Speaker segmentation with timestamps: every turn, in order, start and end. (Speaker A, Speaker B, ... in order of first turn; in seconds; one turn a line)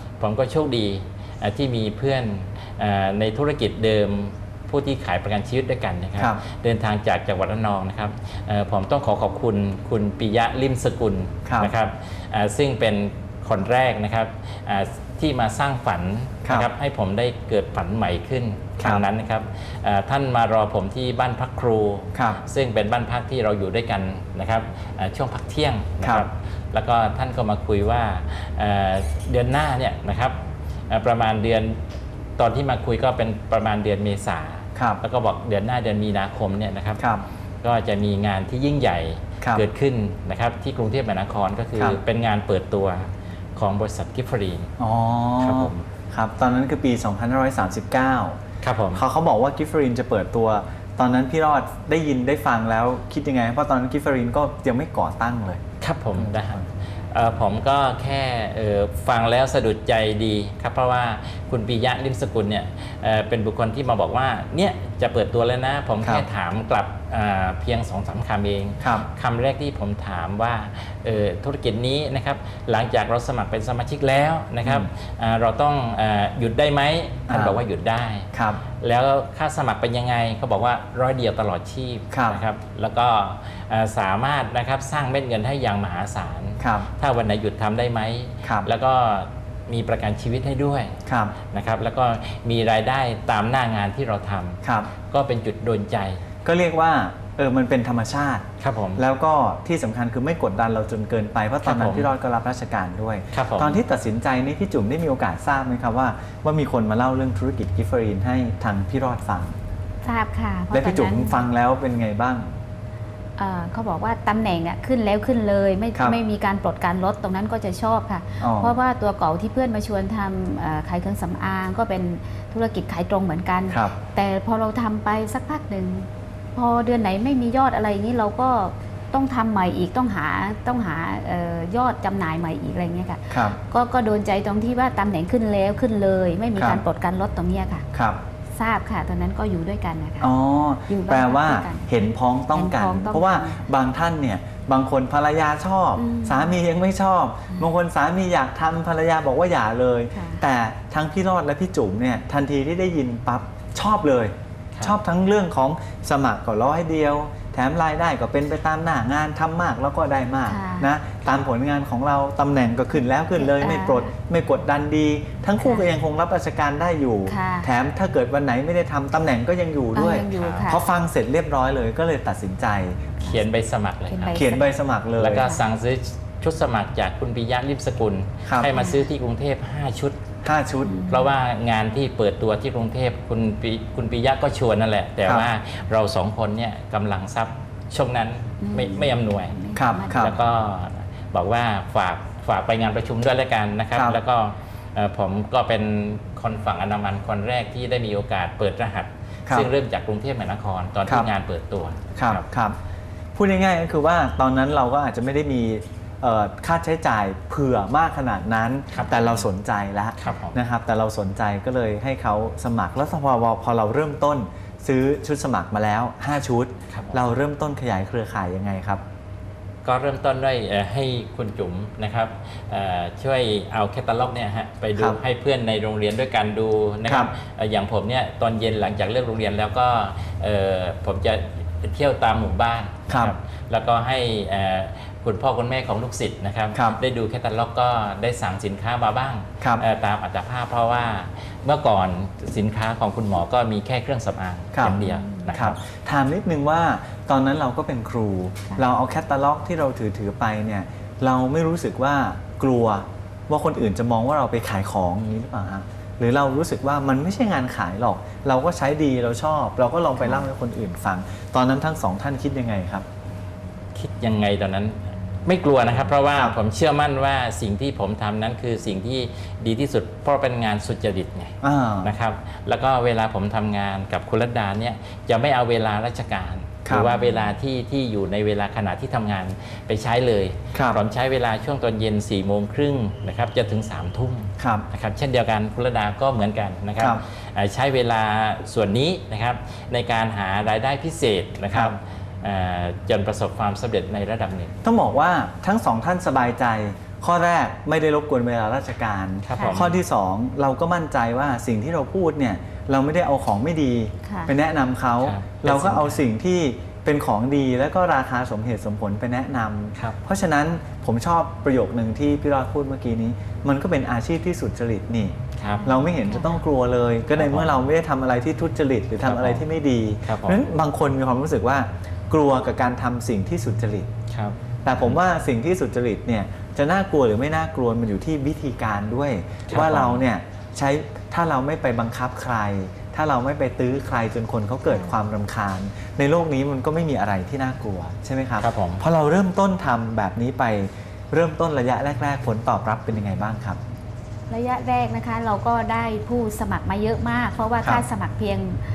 Speaker A: 0.2-30.4
Speaker B: 11.5-11.7
Speaker B: 16.4-16.7
Speaker B: 22.1-22.4
Speaker B: 26.0-26.3
Speaker A: 30.9-31.8
Speaker A: 32.4-37.0
Speaker B: 37.0-37.2
Speaker A: 37.6-44.7
Speaker B: 44.8-48.4
Speaker A: 45.4-45.9
Speaker A: 48.6-49.0
Speaker B: 48.9-55.6
Speaker A: 55.8-78.3
Speaker B: 56.2-56.6
Speaker B: 68.8-69.1
Speaker B: 74.6-74.9
Speaker B: 77.3-77.6
Speaker B: 78.3-78.6
Speaker A: 78.8-91.0
Speaker B: 82.1-82.4
Speaker B: 86.6-86.9
Speaker B: 91.1-91.3
Speaker A: 91.5-96.2
Speaker B: 94.6-94.9
Speaker B: 96.4-98.5
Speaker A: 98.6-99.0
Speaker B: 99.0-109.6
Speaker A: 101.6-102.1
Speaker A: 103.3-103.8
Speaker C: 110.0-111.4
Speaker B: 110.7-112.5
Speaker C: 113.4-137.9
Speaker B: 118.4-118.8
Speaker B: 123.7-124.0
Speaker B: 133.3-133.6
Speaker B: 136.6-136.8
Speaker B: 137.9-138.2
Speaker C: 138.6-140.3
Speaker B: 140.2-173.2
Speaker C: 140.9-141.9
Speaker C: 142.5-143.7
Speaker C: 146.0-146.6
Speaker C: 150.1-150.4
Speaker C: 160.5-160.9
Speaker C: 163.4-164.1
Speaker C: 165.6-165.9
Speaker C: 167.3-167.7
Speaker C: 169.9-170.8
Speaker A: 173.2-174.4
Speaker C: 174.1-174.7
Speaker B: 174.3-175.5
Speaker A: 175.2-180.2
Speaker B: 178.5-178.7
Speaker C: 178.7-179.0
Speaker B: 180.4-181.0
Speaker C: 180.8-181.3
Speaker A: 181.1-202.4
Speaker C: 188.6-190.3
Speaker B: 189.8-190.4
Speaker B: 193.9-194.2
Speaker B: 202.2-202.8
Speaker B: 203.3-219.0
Speaker A: 208.9-209.5
Speaker A: 210.2-210.6
Speaker A: 216.9-217.2
Speaker A: 219.8-245.8
Speaker B: 227.1-227.3
Speaker B: 233.1-233.3
Speaker B: 236.7-237.0
Speaker B: 244.7-263.1
Speaker C: 245.0-245.5
Speaker A: 263.9-294.8
Speaker B: 271.6-272.1
Speaker B: 276.9-277.1
Speaker C: 277.1-277.5
Speaker B: 280.7-281.0
Speaker B: 284.6-284.9
Speaker B: 294.8-324.1
Speaker A: 299.4-299.9
Speaker C: 299.6-299.9
Speaker C: 304.2-304.5
Speaker A: 305.2-306.2
Speaker A: 315.6-315.9
Speaker C: 315.8-316.5
Speaker A: 317.4-317.8
Speaker A: 319.2-319.6
Speaker A: 320.3-320.6
Speaker A: 324.3-325.1
Speaker B: 324.9-343.8
Speaker A: 329.7-330.2
Speaker C: 334.9-335.1
Speaker A: 338.6-339.0
Speaker C: 344.5-348.8